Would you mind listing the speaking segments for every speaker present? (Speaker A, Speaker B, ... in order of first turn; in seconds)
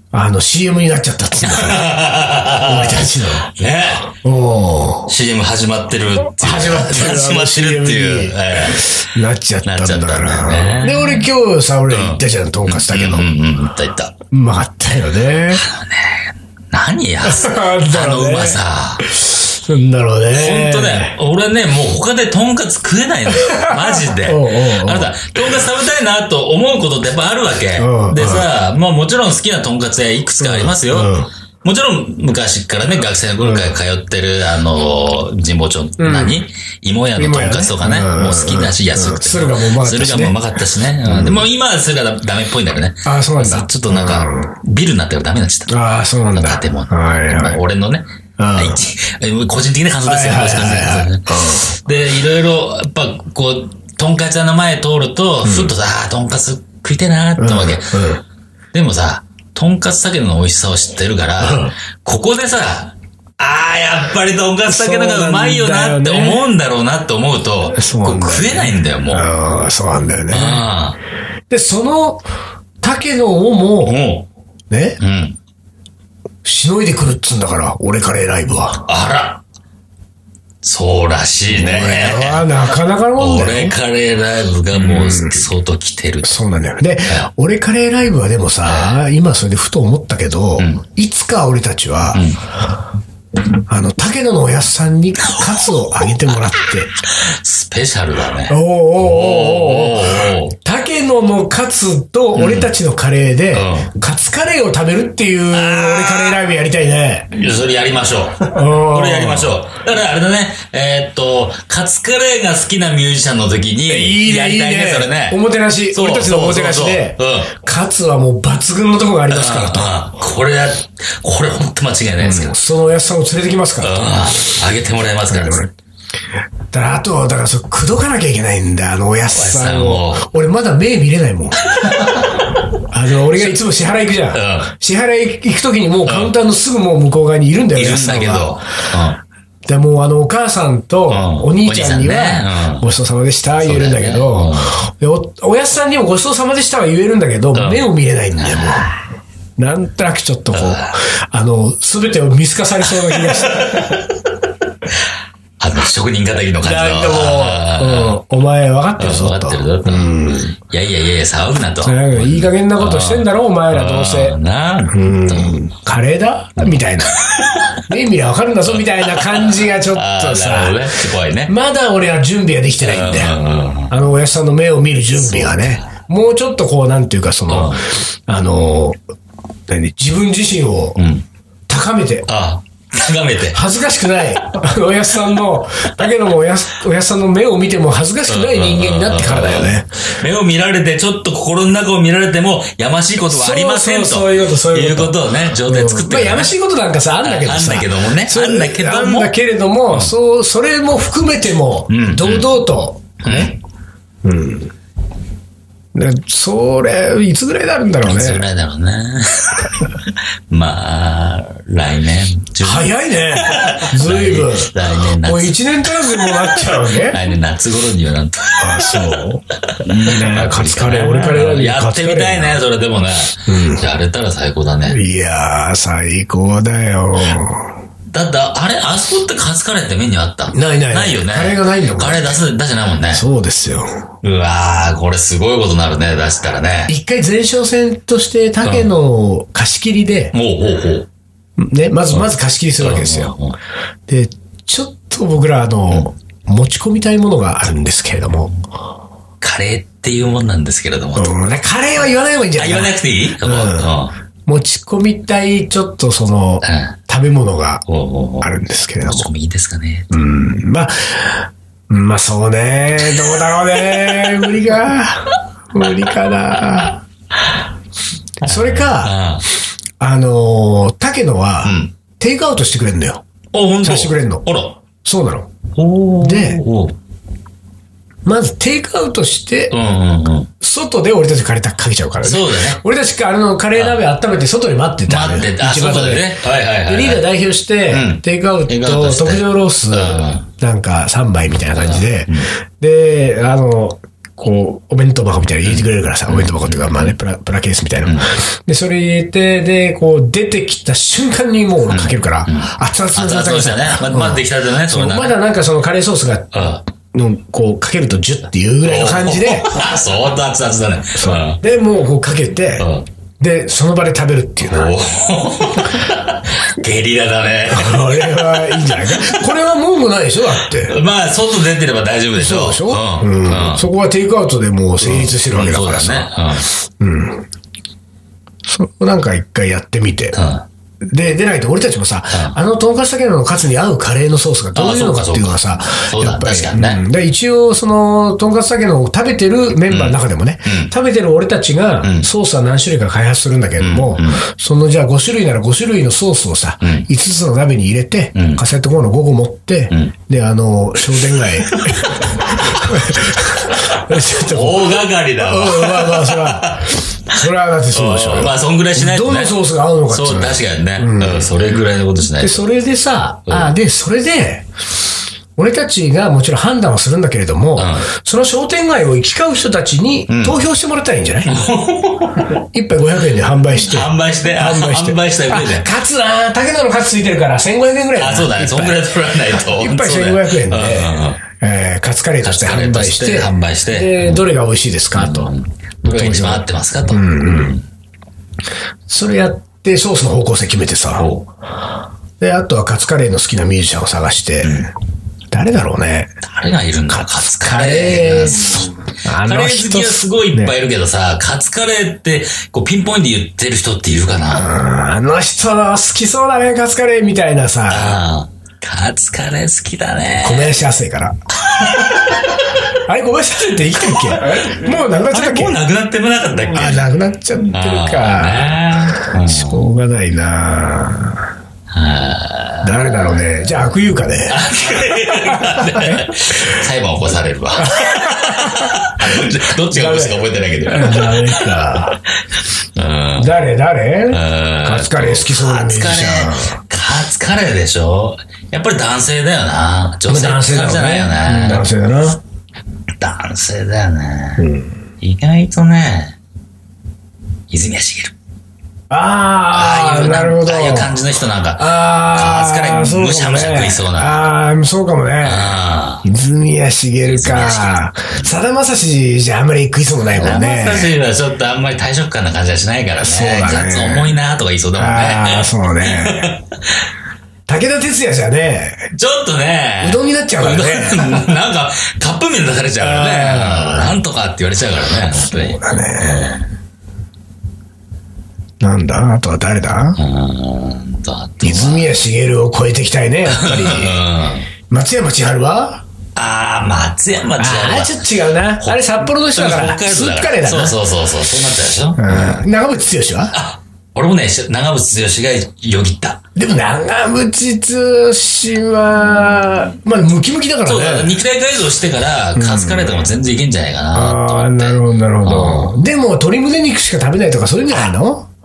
Speaker A: 0.1-1.9, 2.6-3.5, 4.1-5.1, 6.3-13.3, 14.3-15.7, 17.2-21.1, 23.4-25.6, 27.8-28.5, 30.4-31.3, 33.4-33.7, 36.0-36.4, 37.2-40.4, 41.0-41.5, 43.0-44.6, 45.7-47.6, 48.4-48.8, 50.0-51.7, 55.4-55.7, 57.4-58.2, 61.4-61.8, 64.7-66.5, 67.8-70.7, 71.5-72.2, 72.8-74.0, 74.7-75.0, 76.4-78.8, 81.5-83.8, 84.7-85.5, 86.2-92.3, 93.7-96.9, 98.5-107.3, 108.5-109.6, 113.9-120.0, 122.2-124.5, 125.3-125.7, 126.7-138.6, 139.7-148.9, 149.6-154.0, 156.6-160.6, 161.8-164.4, 164.9-173.4, 173.9-179.0, 179.7-181.0, 181.7-182.3, 183.5-189.9, 193.2-203.5, 204.2-204.7, 205.9-208.4, 212.6-217.2, 218.6-222.6, 223.5-223.9, 224.9-227.7, 230.5-232.4, 233.1-234.0, 236.9-240.3, 241.6-243.3, 244.1-248.5, 251.2-257.8, 258.4-259.3, 260.1-267.0, 268.4-269.2, 270.0-273.2, 273.8-274.4, 275.0-275.5, 276.2-276.6, 278.2-279.7, 280.6-309.7, 311.1-312.9, 313.4-314.9, 317.7-321.0, 322.4-327.5, 328.6-330.4, 331.0-361.5, 362.4-364.7, 365.6-371.7, 372.5-385.5, 386.0-387.8, 389.1-391.3, 392.4-394.9, 395.5-396.3, 397.2-400.8, 404.5-408.2, 410.4-415.8, 416.7-421.5, 422.8-426.3, 427.8-432.2, 433.4-436.8, 440.3-442.4, 444.6-445.0, 449.1-451.2, 451.8-461.1, 463.2-464.3, 465.0-466.6, 467.7-469.1, 470.0-471.4, 473.0-474.2, 475.3-476.6, 478.8-480.2, 481.6-484.2, 484.9-486.0, 487.6-491.0, 492.1-493.6, 496.6-501.4, 502.6-503.4, 504.1-508.6
Speaker B: 1.4-4.1, 5.1-9.0, 9.6-11.3, 11.9-14.2, 15.5-19.1, 20.3-45.8, 46.3-58.1, 58.7-69.3, 70.3-71.0, 73.8-74.3, 75.0-75.4, 78.9-79.4, 80.6-82.6, 83.2-86.4, 88.7-89.0, 90.6-90.8, 92.1-92.4, 97.1-100.6, 102.3-102.7, 103.5-103.9, 105.5-106.4, 107.3-115.4, 115.9-117.5, 119.3-122.6, 123.8-125.7, 129.3-130.3, 131.6-132.6, 134.3-134.7, 136.1-136.3, 137.8-139.2, 141.1-142.9, 143.6-144.8, 147.5-149.0, 150.5-150.9, 153.1-154.3, 155.6-158.2, 159.0-160.1, 160.7-165.6, 166.6-167.8, 168.7-171.5, 172.8-174.0, 175.2-175.9, 177.5-177.9, 181.0-181.3, 182.3-183.6, 188.3-196.5, 197.2-199.4, 201.9-202.6, 203.2-203.6, 208.0-225.0, 228.1-233.2, 234.2-236.9, 238.6-238.9, 240.3-241.1, 242.8-243.6, 249.4-251.4, 252.6-254.2, 256.6-257.0, 257.9-258.5, 259.0-260.1, 268.4-269.4, 271.6-271.9, 273.5-274.8, 275.8-277.0, 279.7-280.5, 282.2-282.8, 285.1-287.3, 287.9-290.5, 291.8-292.5, 295.6-297.1, 298.1-298.3, 301.9-305.4, 306.5-306.8, 308.8-311.6, 312.8-313.1, 314.6-319.4, 320.6-323.9, 325.0-326.7, 330.3-330.6, 332.3-332.6, 334.8-337.0, 339.9-340.9, 342.0-342.3, 343.8-344.4, 348.4-348.6, 351.7-352.9, 353.7-357.0, 357.9-362.7, 363.5-363.7, 367.8-368.1, 370.3-370.6, 371.5-372.6, 373.8-375.9, 378.2-381.4, 382.4-384.5, 385.1-387.8, 391.1-391.5, 394.6-394.9, 396.4-404.8, 407.9-410.8, 411.6-412.6, 414.1-417.1, 417.7-419.9, 421.9-423.2, 424.5-431.8, 432.9-433.6, 434.3-441.9, 443.2-444.7, 445.2-446.4, 447.7-448.3, 449.7-454.4, 455.4-456.2, 457.3-458.5, 460.3-466.7, 469.1-476.7, 480.2-482.1, 483.5-484.7, 486.4-492.6, 493.5-496.4, 500.9-506.0